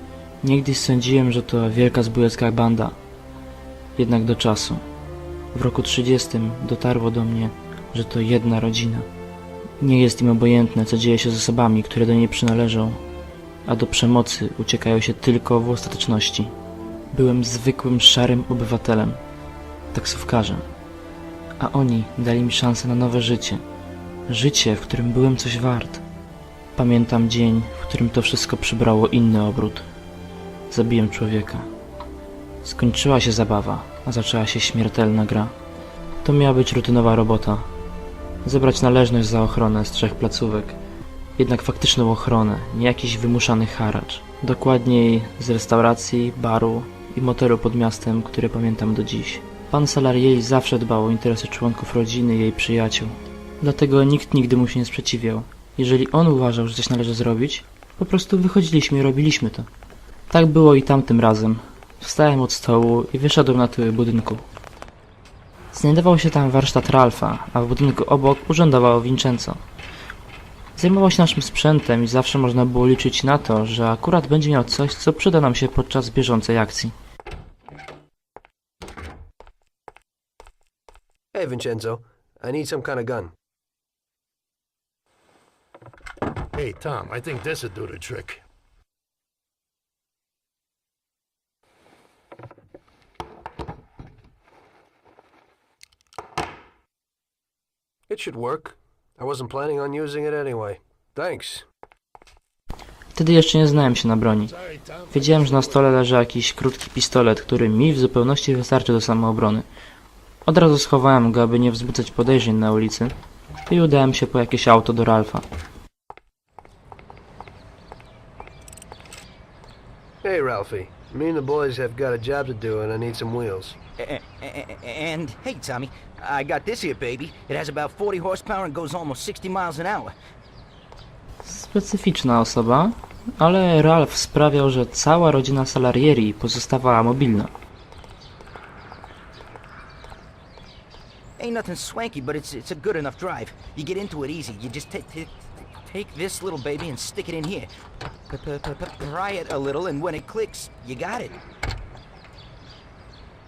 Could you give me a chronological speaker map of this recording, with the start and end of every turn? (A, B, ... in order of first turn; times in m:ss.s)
0:00.4-0:03.0 A
0:04.0-0:04.8 A
0:05.5-0:09.1 A
0:09.8-0:13.0 A
0:13.6-0:16.5 A
0:17.1-0:19.2 A
0:19.9-0:20.7 A
0:21.6-0:23.6 A
0:24.3-0:26.0 A
0:26.8-0:29.9 A
0:30.7-0:31.7 A
0:32.6-0:35.5 A
0:36.2-0:37.7 A
0:38.4-0:40.8 A
0:41.4-0:59.7 A
1:00.3-1:04.4 A
1:05.7-1:09.6 A
1:10.8-1:17.0 A
1:21.3-1:23.3 B
1:26.5-1:28.4 C
1:38.1-1:41.7 B
1:43.1-1:44.6 A
1:45.0-1:45.3 C
1:45.1-1:49.7 A
1:50.4-1:53.2 A
1:53.7-1:55.4 A
2:00.2-2:03.8 B
2:04.0-2:10.1 D
2:11.4-2:17.5 A
2:21.4-2:25.3 D
2:25.9-2:27.7 D
2:28.3-2:31.3 D